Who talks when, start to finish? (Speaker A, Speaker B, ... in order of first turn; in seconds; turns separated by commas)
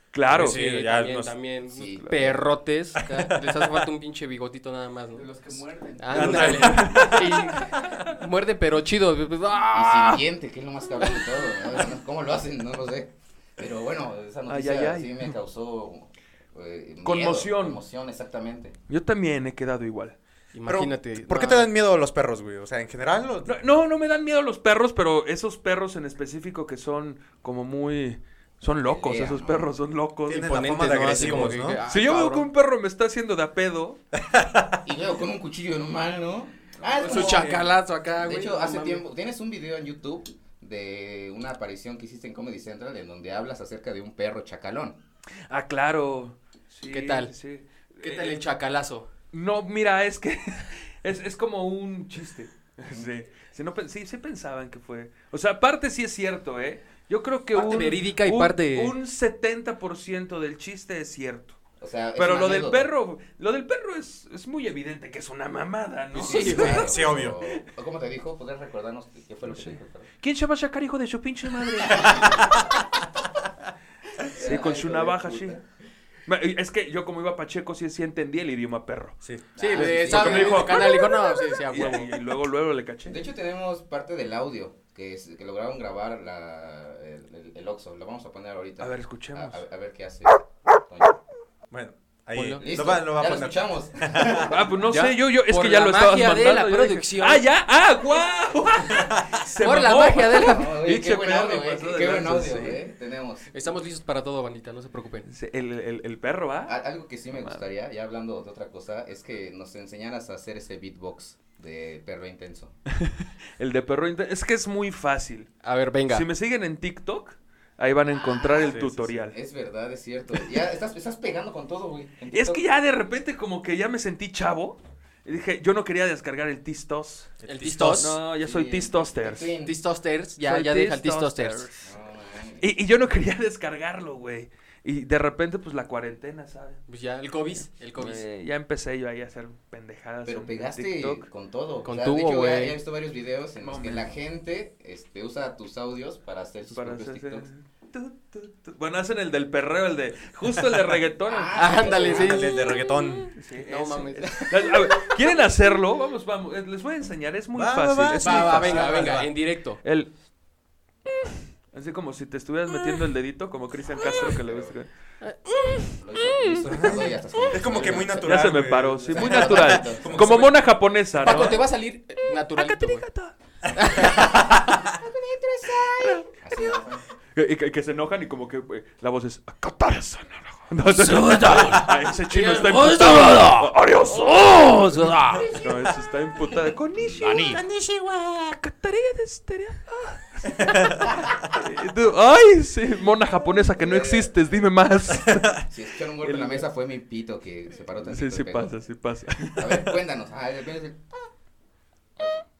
Speaker A: 0.1-0.6, Speaker B: 0.3-1.4, Speaker C: 0.3-5.4, Speaker D: 1.7-2.5, Speaker B: 3.0-3.5, Speaker A: 5.3-8.1, Speaker C: 6.0-10.3, Speaker D: 9.7-18.8, Speaker A: 14.5-15.2, Speaker A: 17.0-17.8, Speaker A: 18.9-20.2, Speaker C: 20.5-21.7, Speaker B: 20.6-23.6, Speaker A: 23.4-30.6, Speaker D: 28.8-29.7, Speaker B: 30.3-31.8, Speaker C: 30.4-32.5, Speaker A: 31.9-34.0, Speaker B: 34.2-34.8, Speaker D: 34.8-45.0, Speaker C: 37.0-39.0, Speaker B: 37.1-37.6, Speaker A: 45.5-48.4, Speaker C: 46.9-47.3, Speaker C: 48.0-49.1, Speaker A: 49.3-61.6, Speaker C: 57.5-58.9, Speaker D: 61.8-62.9, Speaker A: 62.1-67.0, Speaker D: 66.1-70.1, Speaker C: 66.2-66.9, Speaker B: 66.3-67.4, Speaker A: 69.5-72.6, Speaker D: 71.9-72.3, Speaker D: 74.2-75.6, Speaker A: 74.4-75.6, Speaker A: 76.3-79.2, Speaker B: 79.2-79.5, Speaker D: 79.5-80.8, Speaker C: 79.6-82.2, Speaker A: 79.7-81.1, Speaker A: 81.7-83.2, Speaker D: 83.0-91.2, Speaker A: 88.8-89.6, Speaker B: 91.7-94.5, Speaker C: 92.3-92.6, Speaker D: 92.6-94.5, Speaker A: 94.4-102.8, Speaker C: 94.9-97.4, Speaker C: 99.6-100.7, Speaker D: 100.2-103.5, Speaker C: 103.5-105.3, Speaker A: 105.2-106.8, Speaker D: 106.7-112.8, Speaker A: 107.3-107.6, Speaker A: 112.9-115.5, Speaker C: 115.6-116.3, Speaker A: 116.1-119.4, Speaker D: 118.1-122.6, Speaker B: 118.6-119.1, Speaker A: 122.3-127.3, Speaker B: 127.4-128.2, Speaker C: 127.4-128.2, Speaker A: 127.9-129.5, Speaker D: 128.3-129.8, Speaker C: 129.6-131.7, Speaker A: 130.4-131.8, Speaker D: 131.8-132.7, Speaker A: 132.6-136.8, Speaker C: 136.9-138.2, Speaker A: 137.6-141.3, Speaker D: 140.2-147.5, Speaker C: 141.8-142.8, Speaker A: 143.6-144.1, Speaker A: 146.7-152.0, Speaker D: 151.3-152.5, Speaker C: 151.5-152.6, Speaker B: 152.0-153.3, Speaker A: 153.3-159.2, Speaker C: 153.6-155.1, Speaker B: 157.5-159.3, Speaker C: 158.2-159.8, Speaker A: 159.8-160.1, Speaker A: 161.7-164.9, Speaker D: 163.8-164.7, Speaker C: 165.2-165.9, Speaker D: 165.9-168.6, Speaker A: 166.4-166.9, Speaker B: 166.7-170.6, Speaker A: 167.8-171.6, Speaker D: 169.1-170.4, Speaker C: 171.2-173.1, Speaker A: 172.3-173.3, Speaker C: 173.7-174.9, Speaker D: 175.0-177.0, Speaker A: 176.0-176.2, Speaker A: 177.3-187.5, Speaker C: 180.9-185.6, Speaker D: 187.1-187.6, Speaker B: 187.4-188.5, Speaker A: 188.5-195.7, Speaker B: 190.6-191.1, Speaker D: 193.8-194.3, Speaker D: 195.6-198.7, Speaker A: 196.2-196.6, Speaker A: 198.0-199.8, Speaker D: 199.6-201.1